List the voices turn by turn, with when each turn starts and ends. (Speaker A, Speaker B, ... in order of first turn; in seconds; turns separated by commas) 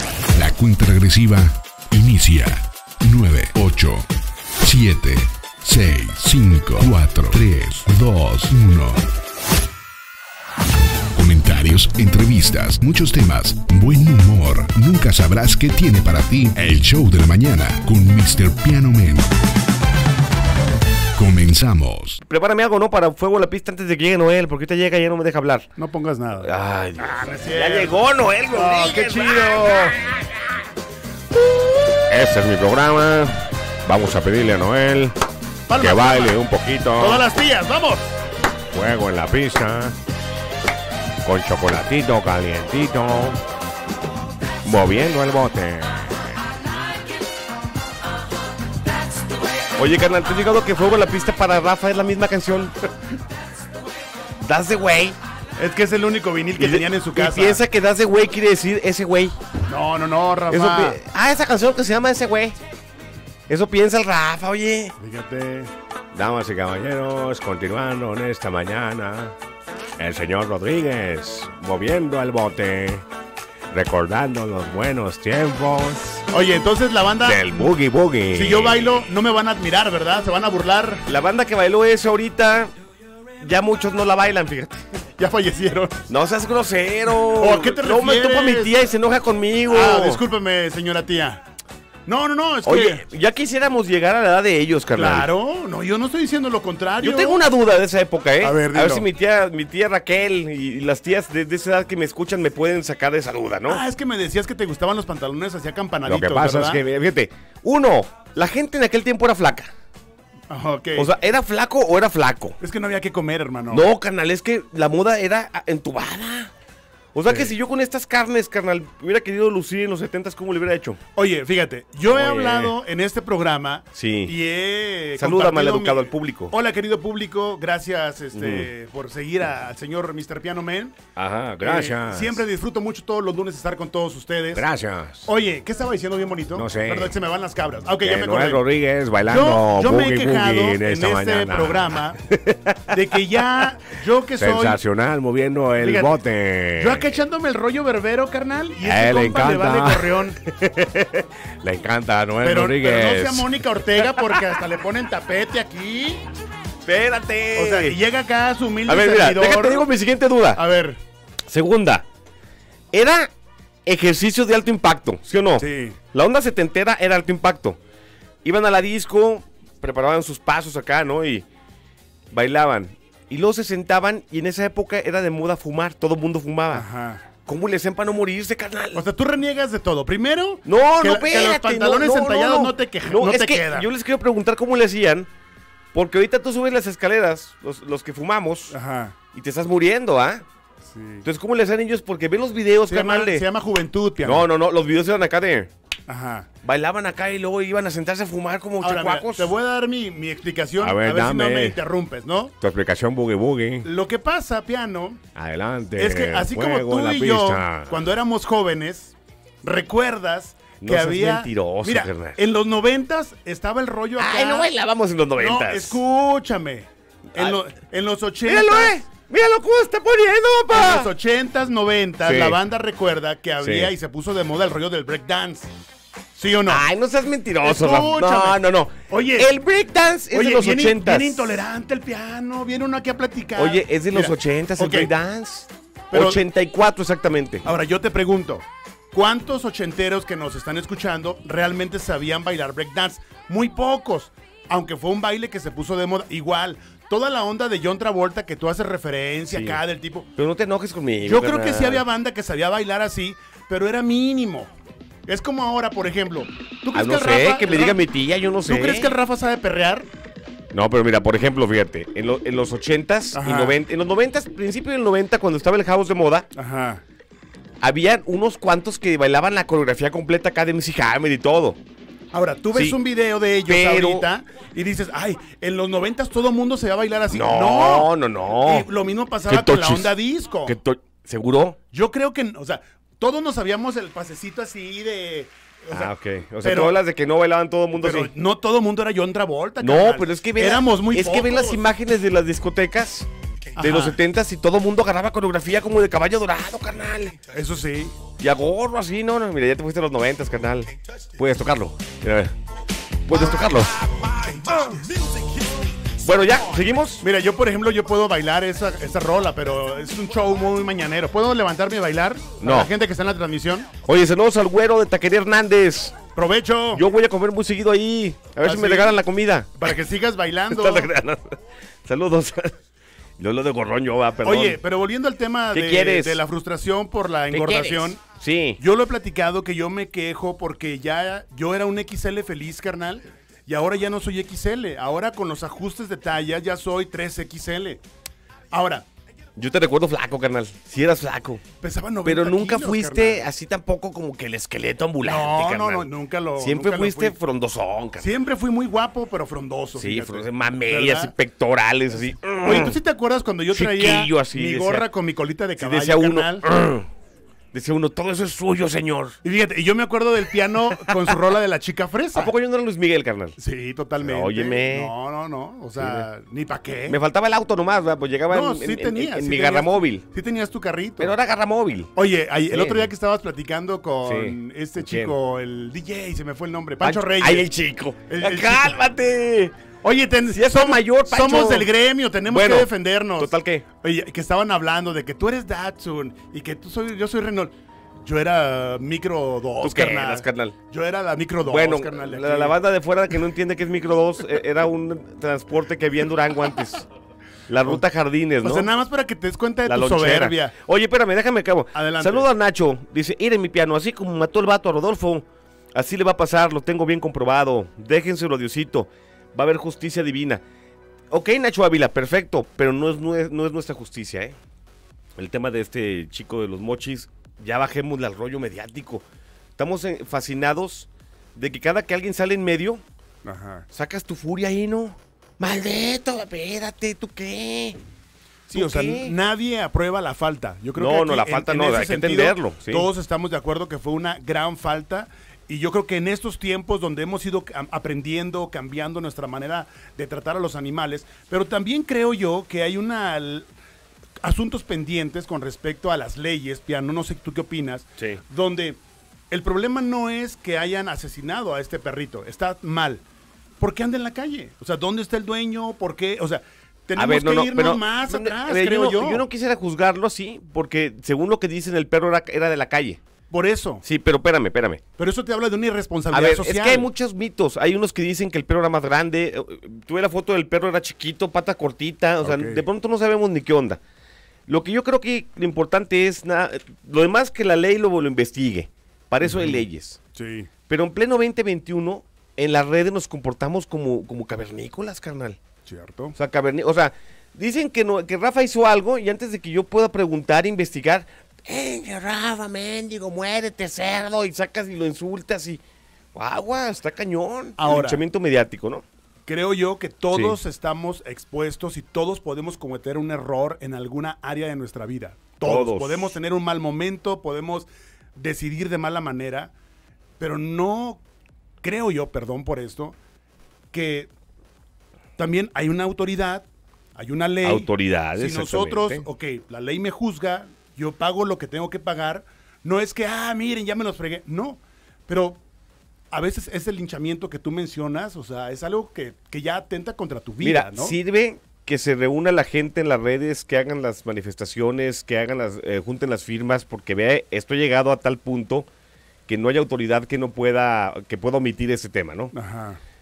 Speaker A: 0.3-4.0, Speaker A: 4.6-9.0, Speaker A: 11.1-19.3, Speaker A: 21.1-22.2, Speaker B: 22.2-25.7, Speaker C: 25.8-26.5, Speaker B: 26.4-29.9, Speaker C: 27.0-29.9, Speaker C: 31.5-32.0, Speaker B: 32.1-35.1, Speaker C: 35.7-36.4, Speaker B: 35.8-37.2, Speaker C: 37.0-38.0, Speaker B: 38.7-39.9, Speaker B: 41.2-43.4, Speaker B: 44.6-46.3, Speaker B: 49.7-52.7, Speaker B: 54.4-55.2, Speaker C: 55.6-57.6, Speaker B: 56.6-59.4, Speaker C: 59.7-61.0, Speaker B: 60.5-62.6, Speaker B: 63.5-64.9, Speaker C: 65.0-65.7, Speaker B: 66.1-69.3, Speaker B: 70.0-73.0, Speaker B: 73.7-76.3, Speaker C: 76.3-77.4, Speaker B: 77.2-78.9, Speaker C: 78.3-81.0, Speaker B: 81.0-82.7, Speaker B: 83.4-84.8, Speaker C: 85.2-86.0, Speaker B: 86.1-90.2, Speaker C: 87.3-88.7, Speaker C: 89.7-91.4, Speaker C: 92.1-93.0, Speaker B: 92.6-95.3, Speaker C: 94.9-97.4, Speaker B: 97.0-103.8, Speaker C: 98.4-99.0, Speaker C: 103.7-106.8, Speaker B: 106.0-109.7, Speaker C: 110.5-111.1, Speaker B: 110.9-112.6, Speaker C: 112.6-113.9, Speaker B: 113.7-116.5, Speaker B: 117.1-121.0, Speaker C: 117.3-117.5, Speaker C: 121.2-131.0, Speaker B: 122.1-122.7, Speaker B: 123.9-124.3, Speaker B: 125.2-126.5, Speaker B: 128.3-128.7, Speaker B: 131.2-132.4, Speaker C: 131.6-134.6, Speaker B: 134.5-135.3, Speaker C: 135.2-138.7, Speaker B: 136.5-137.1, Speaker B: 138.0-143.0, Speaker C: 139.3-142.2, Speaker C: 142.9-144.8, Speaker B: 144.4-147.1, Speaker C: 145.8-146.2, Speaker C: 146.8-150.4, Speaker B: 148.8-154.5, Speaker C: 152.4-156.2, Speaker B: 156.8-158.0, Speaker C: 157.5-159.9, Speaker B: 158.9-160.6, Speaker C: 160.5-161.0, Speaker B: 161.5-162.0, Speaker B: 162.9-163.3, Speaker B: 163.8-167.8, Speaker C: 165.6-166.0, Speaker B: 168.4-171.4, Speaker B: 172.3-176.8, Speaker C: 176.7-177.2, Speaker B: 177.4-179.0, Speaker C: 178.9-183.9, Speaker B: 180.7-185.3, Speaker B: 185.9-188.8, Speaker C: 188.7-189.1, Speaker B: 189.3-190.4, Speaker C: 190.8-191.2, Speaker B: 191.2-193.4, Speaker C: 192.9-194.4, Speaker B: 194.2-195.7, Speaker C: 196.1-196.5, Speaker B: 196.6-199.5, Speaker C: 198.8-202.5, Speaker B: 200.8-201.8, Speaker B: 202.6-203.9, Speaker C: 203.8-205.2, Speaker B: 205.3-207.9, Speaker C: 206.0-214.7, Speaker B: 210.8-212.4, Speaker B: 214.2-216.0, Speaker C: 215.4-219.0, Speaker B: 217.3-217.6, Speaker B: 218.4-221.1, Speaker C: 220.7-225.7, Speaker B: 222.2-222.6, Speaker B: 223.6-223.9, Speaker C: 226.3-226.8, Speaker B: 226.7-231.5, Speaker C: 227.6-229.5, Speaker C: 230.3-235.1, Speaker B: 233.6-237.7, Speaker C: 236.1-236.4, Speaker C: 237.6-250.3, Speaker B: 249.5-249.8, Speaker B: 250.4-252.0, Speaker C: 251.2-254.7, Speaker C: 255.3-258.0, Speaker B: 256.9-259.1, Speaker C: 258.6-260.1, Speaker B: 260.7-266.5, Speaker C: 263.4-263.8, Speaker C: 266.5-267.0, Speaker B: 267.8-271.8, Speaker C: 272.3-280.7, Speaker B: 272.7-273.0, Speaker B: 273.6-274.2, Speaker B: 277.3-278.9, Speaker B: 279.5-281.8, Speaker C: 281.9-287.0, Speaker B: 285.9-288.3, Speaker C: 288.0-291.8, Speaker B: 289.8-297.4, Speaker C: 293.8-294.2, Speaker C: 297.5-298.2, Speaker B: 298.4-302.5, Speaker B: 303.2-303.9, Speaker C: 304.3-305.1, Speaker B: 306.2-307.2, Speaker C: 307.2-313.9, Speaker B: 312.6-312.9, Speaker B: 314.0-316.1, Speaker C: 316.3-317.0, Speaker B: 316.9-319.8, Speaker C: 318.6-319.2, Speaker C: 319.8-321.1, Speaker B: 320.7-321.5, Speaker B: 322.1-322.7, Speaker B: 323.4-324.8, Speaker C: 324.4-328.2, Speaker B: 325.7-326.4, Speaker B: 327.5-328.8, Speaker C: 328.8-338.0, Speaker C: 338.7-339.1, Speaker B: 339.6-341.6, Speaker C: 341.8-343.4, Speaker B: 342.2-348.3, Speaker C: 345.2-347.3, Speaker C: 348.2-351.3, Speaker B: 350.0-353.0, Speaker C: 352.6-356.6, Speaker B: 353.7-355.1, Speaker B: 355.8-357.1, Speaker B: 357.7-359.4, Speaker C: 359.4-362.5, Speaker B: 360.9-361.4, Speaker B: 362.3-363.6, Speaker C: 363.6-367.2, Speaker B: 364.2-365.1, Speaker B: 366.0-366.3, Speaker B: 367.1-370.2, Speaker C: 368.5-371.3, Speaker B: 371.2-372.1, Speaker C: 372.1-377.7, Speaker B: 372.7-373.1, Speaker B: 374.2-375.3, Speaker B: 377.0-379.8, Speaker C: 378.3-378.9, Speaker C: 380.0-392.8, Speaker B: 380.5-381.9, Speaker B: 382.5-383.8, Speaker B: 389.8-390.8, Speaker B: 391.6-397.1, Speaker B: 397.7-398.9, Speaker C: 398.6-400.7, Speaker B: 399.9-410.6, Speaker C: 401.9-402.5, Speaker B: 411.3-414.6, Speaker B: 415.4-419.2, Speaker B: 419.8-423.0, Speaker C: 423.4-423.9, Speaker B: 423.9-428.0, Speaker C: 428.7-443.7, Speaker B: 428.7-429.3, Speaker B: 430.9-433.1, Speaker C: 444.4-449.0, Speaker C: 449.5-453.2, Speaker C: 453.8-459.4, Speaker B: 457.1-463.2, Speaker C: 463.5-464.0, Speaker B: 464.0-465.0, Speaker C: 465.2-467.1, Speaker B: 466.3-474.0, Speaker C: 472.4-472.8, Speaker B: 474.7-480.2, Speaker C: 479.4-479.8, Speaker C: 480.3-480.7, Speaker B: 480.9-485.6, Speaker C: 485.9-486.3, Speaker B: 486.3-495.8, Speaker B: 496.3-499.0, Speaker C: 497.8-498.2, Speaker C: 499.5-509.7, Speaker B: 500.3-500.6, Speaker B: 505.6-506.3, Speaker C: 510.4-511.2, Speaker C: 511.8-513.1, Speaker C: 513.9-514.3, Speaker C: 515.4-525.6, Speaker B: 517.6-519.2, Speaker C: 526.3-531.2, Speaker B: 530.6-538.9, Speaker B: 539.5-542.5, Speaker C: 542.5-543.0